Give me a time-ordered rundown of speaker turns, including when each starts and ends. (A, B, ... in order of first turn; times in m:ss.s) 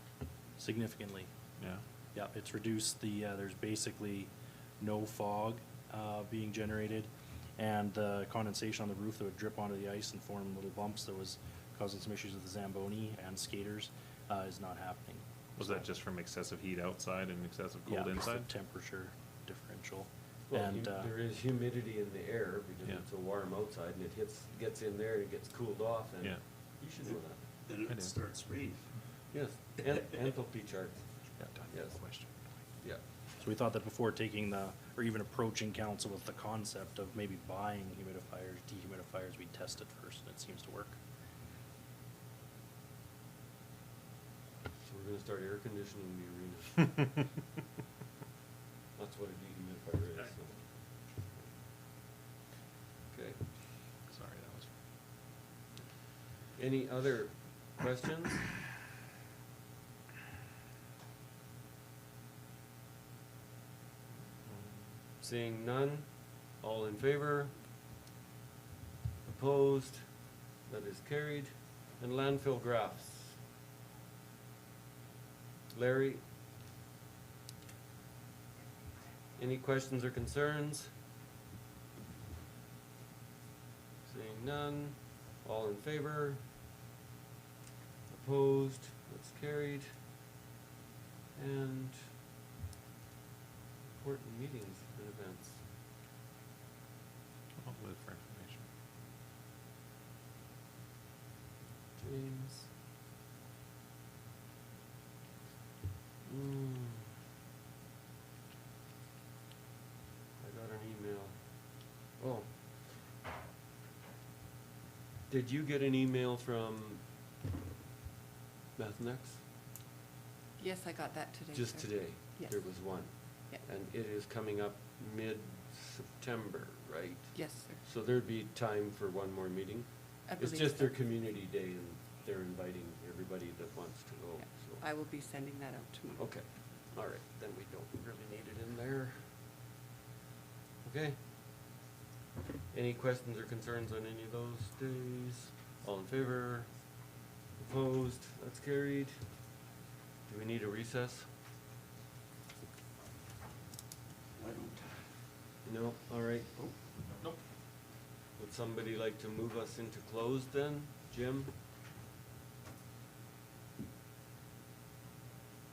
0:00.6-0:01.3 A
0:01.6-0:01.8 B
0:02.1-0:15.8 A
0:15.6-0:18.5 B
0:17.8-0:21.1 A
0:20.5-0:27.4 C
0:26.8-0:29.0 D
0:27.9-0:28.2 B
0:29.3-0:31.1 C
0:31.4-0:32.3 B
0:31.7-0:32.0 C
0:33.4-0:41.0 A
0:44.8-0:47.2 C
0:49.0-0:51.6 C
0:53.1-0:53.5 C
0:54.1-0:54.7 B
0:56.6-0:58.5 C
1:04.5-1:04.9 B
1:05.2-1:07.6 C
1:09.2-1:13.4 C
1:15.7-1:16.2 C
1:19.4-1:20.9 C
1:24.0-1:26.4 C
1:28.1-1:29.9 C
1:31.3-1:32.1 C
1:33.8-1:35.6 C
1:37.6-1:38.7 B
1:42.0-1:42.7 C
1:46.2-1:47.1 C
1:50.4-1:53.0 C
1:55.3-1:57.0 C
1:58.8-1:59.4 C
2:00.6-2:03.6 E
2:01.5-2:14.8 C
2:07.3-2:07.8 E
2:10.2-2:11.0 E
2:14.4-2:16.2 E
2:16.2-2:19.4 C
2:20.8-2:21.2 C
2:22.7-2:29.4 C
2:30.2-2:31.3 C
2:34.4-2:35.1 D
2:35.6-2:36.6 C
2:36.6-2:37.4 D
2:38.4-2:41.5 C